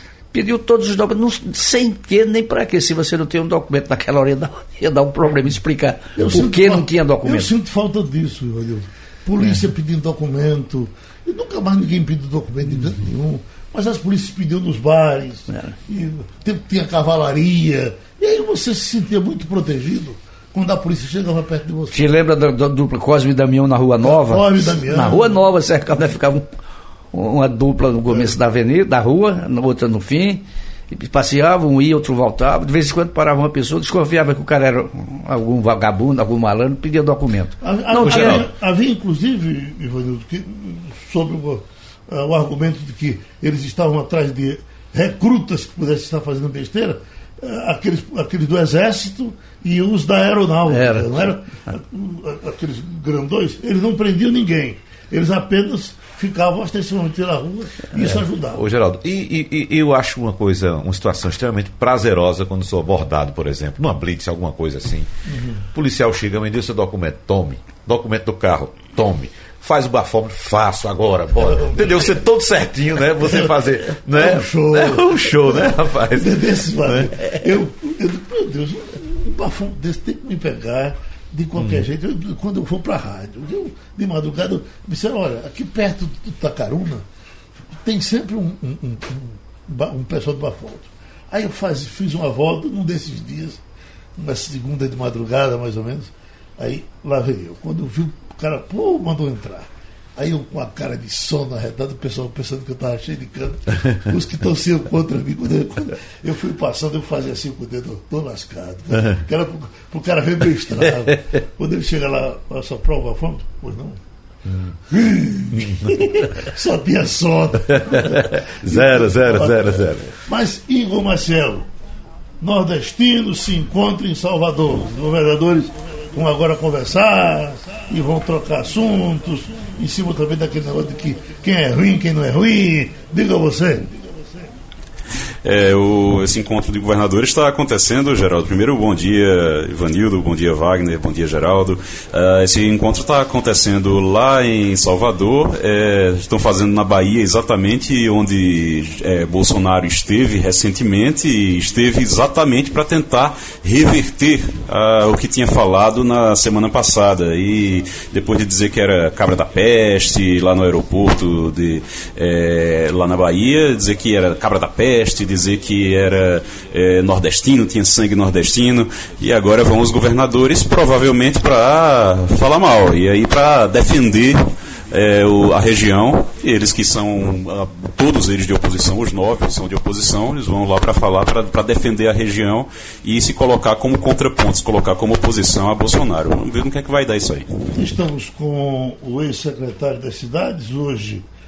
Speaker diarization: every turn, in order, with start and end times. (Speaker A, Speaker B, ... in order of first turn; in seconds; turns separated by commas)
Speaker A: 0.3-7.5, Speaker B: 6.2-22.0, Speaker A: 15.5-15.7, Speaker A: 21.9-26.4, Speaker B: 24.0-25.3, Speaker A: 27.1-38.4, Speaker B: 37.6-58.6, Speaker C: 38.0-38.5, Speaker A: 50.7-51.7, Speaker A: 57.9-58.2, Speaker C: 58.5-65.1, Speaker B: 65.3-65.6, Speaker C: 65.7-77.1, Speaker B: 73.2-87.0, Speaker C: 81.5-81.8, Speaker B: 87.8-93.6, Speaker B: 94.2-114.0, Speaker C: 108.9-109.2, Speaker C: 114.5-114.7, Speaker B: 114.9-121.7, Speaker C: 115.5-116.1, Speaker C: 117.9-120.2, Speaker B: 122.4-133.9, Speaker D: 135.4-187.5, Speaker B: 187.7-191.2